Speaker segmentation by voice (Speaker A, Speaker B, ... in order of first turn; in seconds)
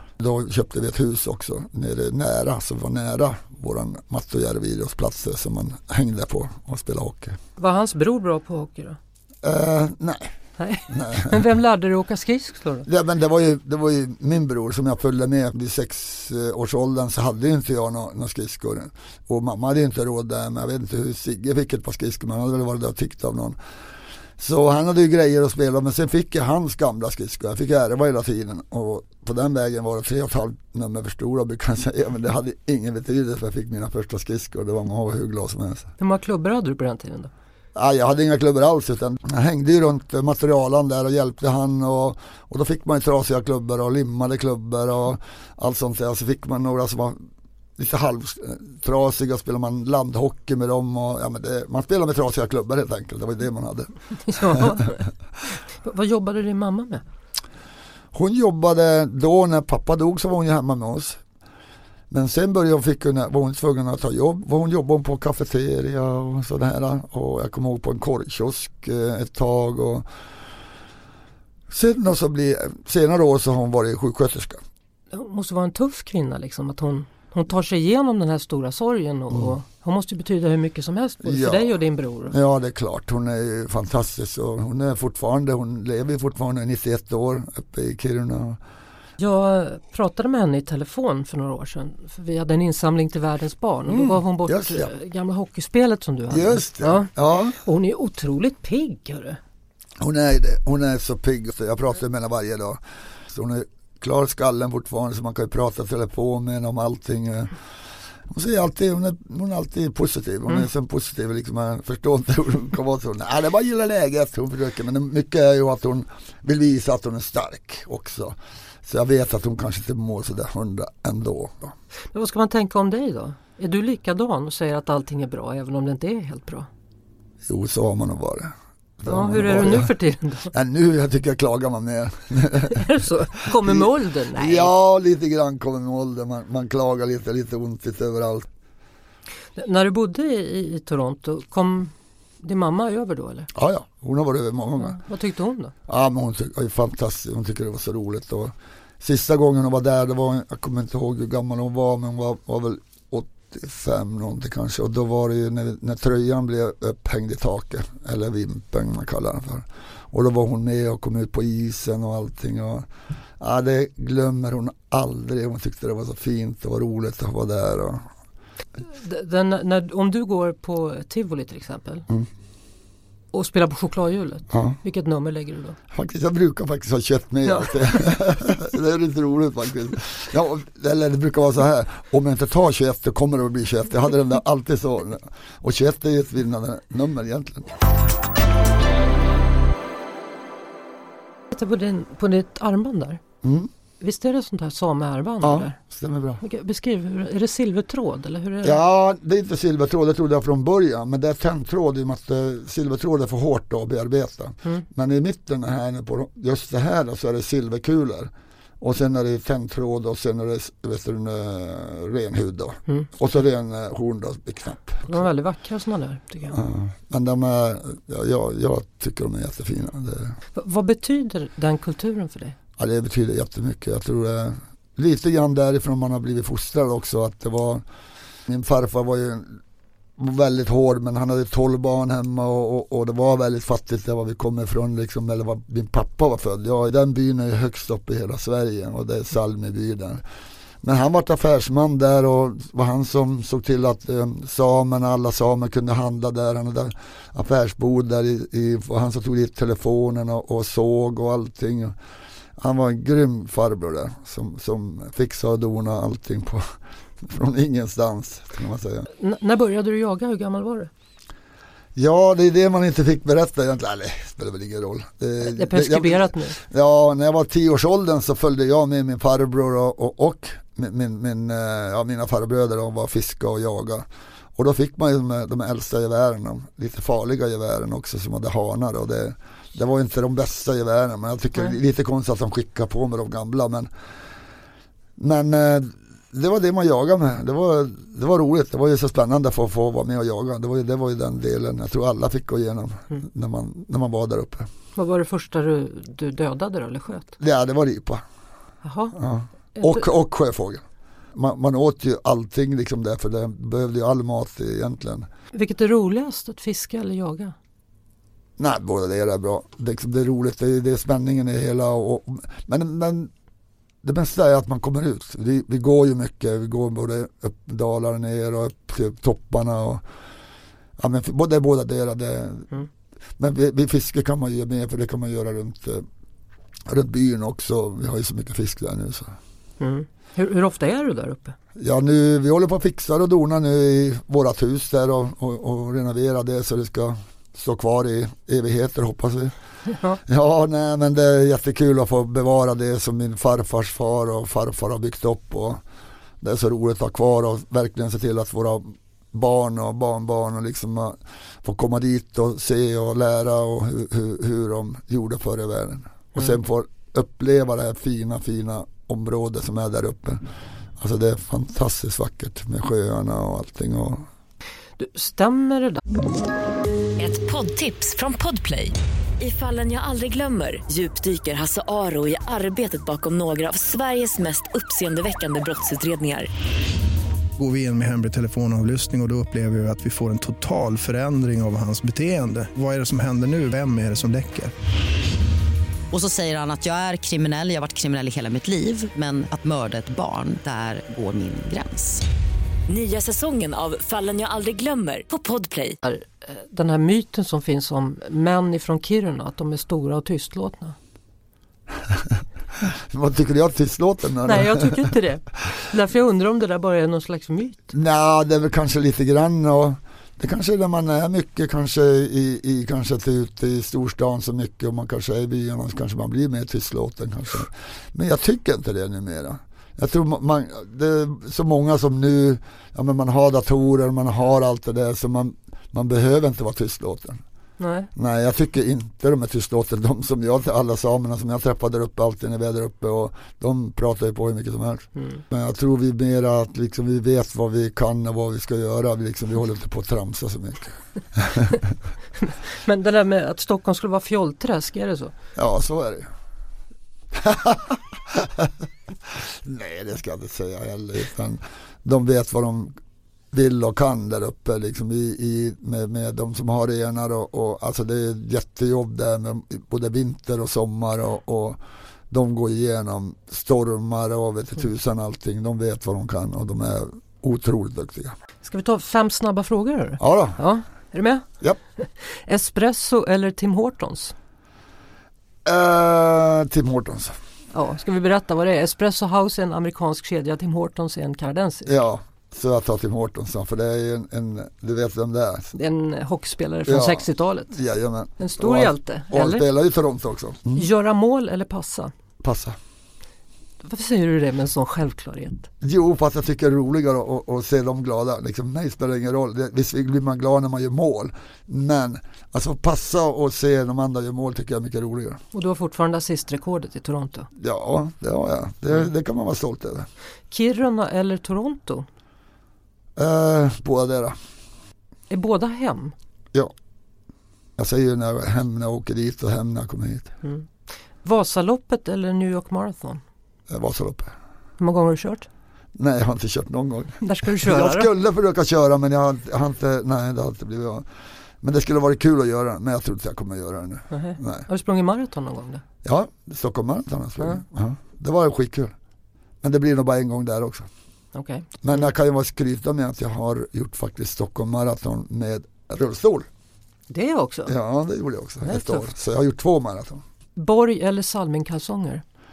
Speaker A: 0.2-7.4, 9.4-10.3, 10.9-11.4, 12.9-23.6, 24.4-35.9, 37.8-47.2, 47.8-54.7, 58.1-61.2, 62.1-70.1, 71.7-74.6, 81.2-81.7, 82.3-88.6, 93.9-94.9, 96.3-97.6, 100.0-107.5, 108.3-121.8, 127.5-129.9, 130.5-132.8, 133.5-138.5, 143.5-145.0, 145.9-162.9, 163.4-168.1, 174.5-174.8, 175.9-187.7, 193.4-193.7, 195.4-196.4, 198.6-215.3, 216.5-220.4, 222.8-227.8, 228.5-229.6, 230.2-240.2, 240.8-252.0, 252.6-259.1, 261.9-283.9, 285.2-294.7, 297.4-298.2, 299.1-300.8, 301.3-305.3, 308.6-313.3, 314.0-320.0, 321.0-322.7, 323.4-326.1, 326.9-329.4, 331.8-339.6, 340.2-345.8, 346.4-360.4, 361.0-364.3, 402.1-405.1, 407.9-427.4, 428.1-441.9, 445.6-446.3, 447.3-452.9, 453.5-468.4, 470.2-470.6, 475.6-477.4, 481.9-485.7, 486.9-490.9, 492.4-492.8, 495.8-505.4, 507.6-510.1, 513.2-514.4, 517.8-520.3, 523.7-524.3, 526.0-531.1, 531.6-534.7, 536.0-538.9, 539.6-540.9, 541.8-546.5, 547.7-550.2
Speaker B: 7.6-9.0, 10.6-12.9, 36.0-37.3, 54.2-57.0, 75.1-82.4, 89.2-99.4, 122.1-126.7, 129.1-130.5, 132.7-134.7, 139.6-143.5, 144.8-145.7, 168.9-172.1, 173.3-175.8, 177.5-178.0, 191.5-193.2, 194.0-195.8, 196.4-198.8, 215.1-216.6, 220.6-222.6, 259.2-260.9, 265.4-266.6, 295.0-297.4, 298.8-299.2, 299.8-300.1, 305.5-307.6, 329.8-331.6, 339.9-340.2, 365.0-366.0, 396.0-401.0, 404.4-407.9, 427.8-428.1, 435.2-435.4, 442.4-445.3, 468.6-474.3, 477.7-482.0, 485.7-487.8, 488.4-489.7, 490.7-492.1, 493.8-495.7, 505.5-507.5, 510.5-512.1, 515.3-516.1, 520.4-520.7, 521.2-523.2, 524.8-525.5, 527.2-528.1, 534.1-535.8, 541.3-541.8, 547.1-547.7, 548.6-549.1, 550.6-552.2
Speaker C: 367.2-376.5, 392.9-396.0
Speaker D: 377.6-384.7
Speaker E: 386.1-392.2